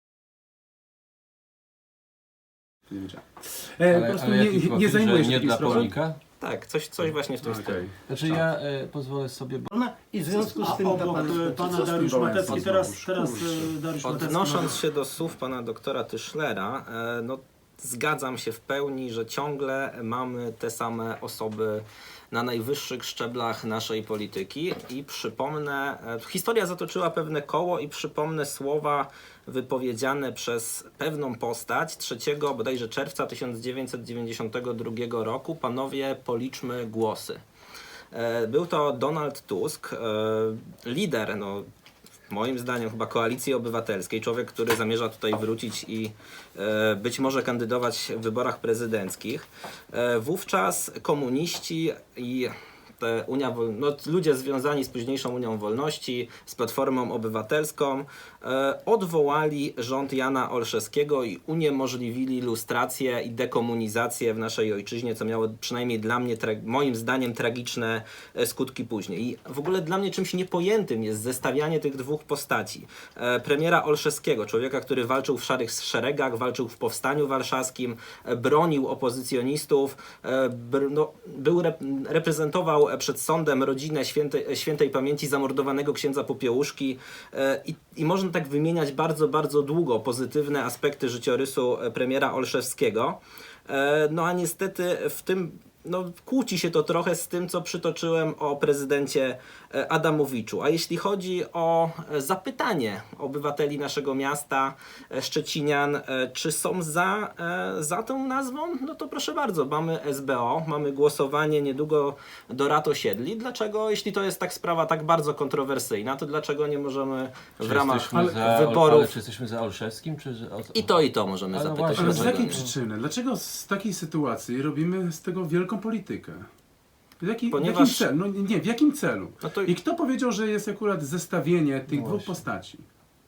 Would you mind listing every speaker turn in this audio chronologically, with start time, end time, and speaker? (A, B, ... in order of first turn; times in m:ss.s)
0:02.9-0:05.9 A
0:03.9-0:06.2 B
0:05.6-0:05.9 C
0:06.4-0:07.8 C
0:07.4-0:08.4 A
0:08.1-0:09.7 B
0:09.7-0:12.4 D
0:10.3-0:10.7 A
0:10.5-0:14.8 E
0:11.7-0:13.7 A
0:14.0-0:37.4 C
0:38.1-0:41.6 C
0:42.3-1:59.1 C
1:57.6-2:01.0 B
1:58.1-1:58.4 A
2:00.7-2:02.6 C
2:01.5-2:02.7 B
2:02.0-2:06.5 A
2:07.2-2:12.8 A
2:07.5-2:08.0 C
2:09.4-2:09.7 C
2:11.9-2:12.3 B